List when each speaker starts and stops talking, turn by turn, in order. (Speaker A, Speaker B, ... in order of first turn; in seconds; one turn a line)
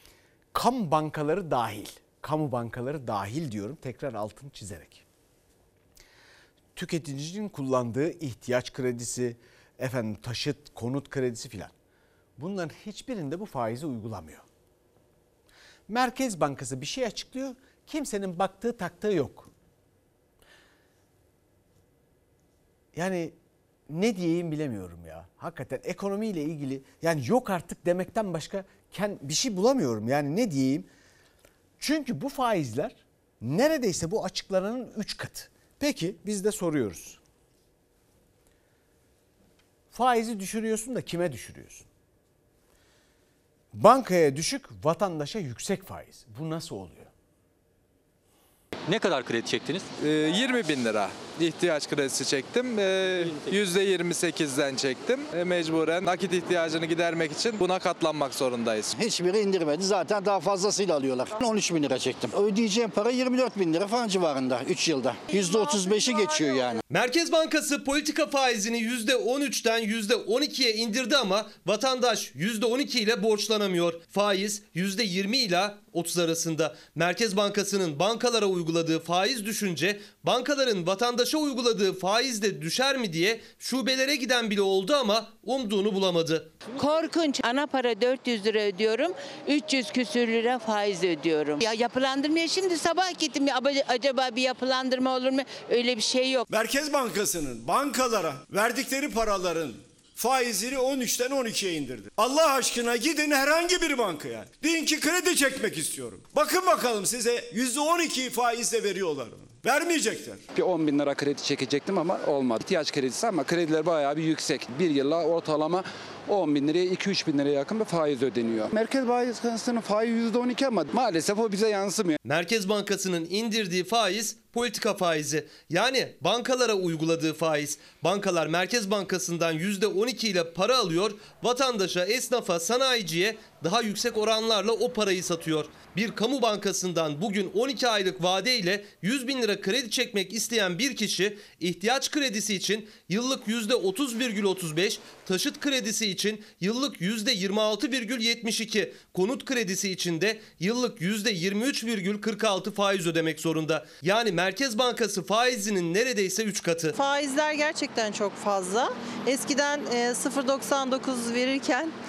Speaker A: 0.5-5.0
Speaker A: 6.7-11.7
Speaker A: 12.4-14.4
Speaker A: 15.9-19.5
Speaker A: 22.9-23.3
Speaker A: 23.9-30.9
Speaker A: 31.8-37.2
Speaker A: 39.9-41.9
Speaker A: 43.7-47.1
Speaker B: 50.0-58.9
Speaker C: 58.9-66.8
Speaker D: 66.9-86.5
Speaker E: 86.8-96.4
Speaker F: 96.5-110.5
Speaker G: 110.5-122.2
Speaker D: 122.2-157.0
Speaker H: 157.8-158.6
Speaker H: 160.0-161.1